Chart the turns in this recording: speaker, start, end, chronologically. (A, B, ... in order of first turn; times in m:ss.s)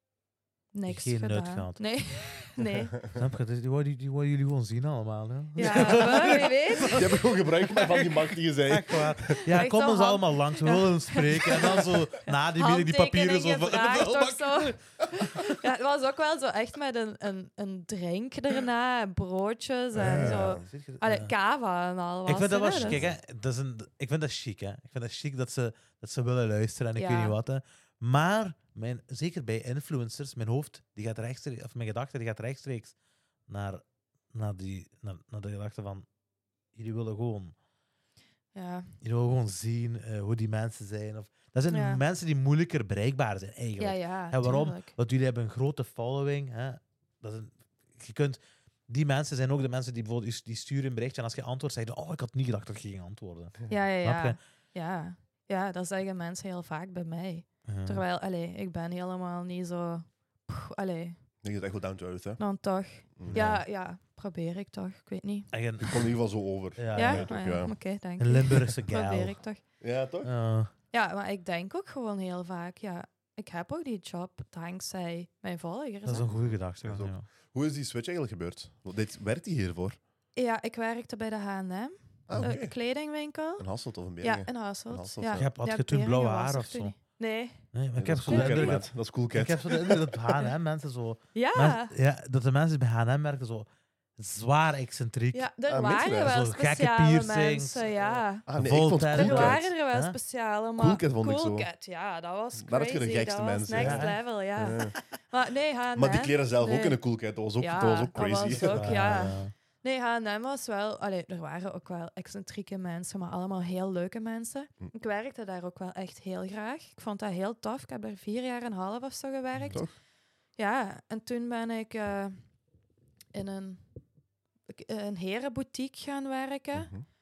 0:00.7-0:03.0 A
0:00.9-0:01.8 B
0:02.6-0:03.2 C
0:03.1-0:14.8 B
0:05.6-0:07.1 A
0:05.6-0:06.3 C
0:06.9-0:09.5 C
0:09.5-0:23.0 A
0:19.9-0:20.7 C
0:20.0-0:21.3 B
0:22.2-0:32.9 B
0:22.7-0:23.2 C
0:27.0-0:27.4 A
0:33.5-0:36.1 B
0:36.7-0:37.5 B
0:38.5-0:38.9 A
0:39.0-0:54.4 B
0:41.7-0:42.0 A
0:43.8-0:45.0 A
0:53.7-1:01.2 A
0:57.6-0:58.0 B
1:01.4-1:03.6 C
1:02.4-1:05.5 A
1:03.2-1:03.6 B
1:05.5-1:06.2 B
1:05.8-1:07.8 C
1:06.7-1:07.4 B
1:06.9-1:09.6 A
1:08.2-1:09.4 B
1:09.8-1:10.3 C
1:10.2-1:10.7 B
1:10.9-1:16.3 A
1:16.0-1:17.2 B
1:16.4-1:20.0 C
1:20.4-1:27.7 A
1:22.3-1:22.8 C
1:23.6-1:25.5 C
1:25.3-1:27.0 B
1:27.7-1:35.5 B
1:28.0-1:30.1 C
1:28.3-1:28.7 A
1:31.3-1:31.9 A
1:35.3-1:38.4 A
1:35.7-1:36.4 C
1:36.2-1:37.8 B
1:38.0-1:39.7 C
1:38.5-1:40.2 B
1:39.1-1:47.0 A
1:40.8-1:41.7 C
1:42.6-1:44.9 C
1:43.7-1:44.2 B
1:45.9-1:49.3 C
1:47.6-2:00.0 A
1:48.5-1:49.5 B
2:00.6-2:02.4 A
2:03.3-2:03.8 A
2:04.7-2:06.9 A
2:06.7-2:07.0 C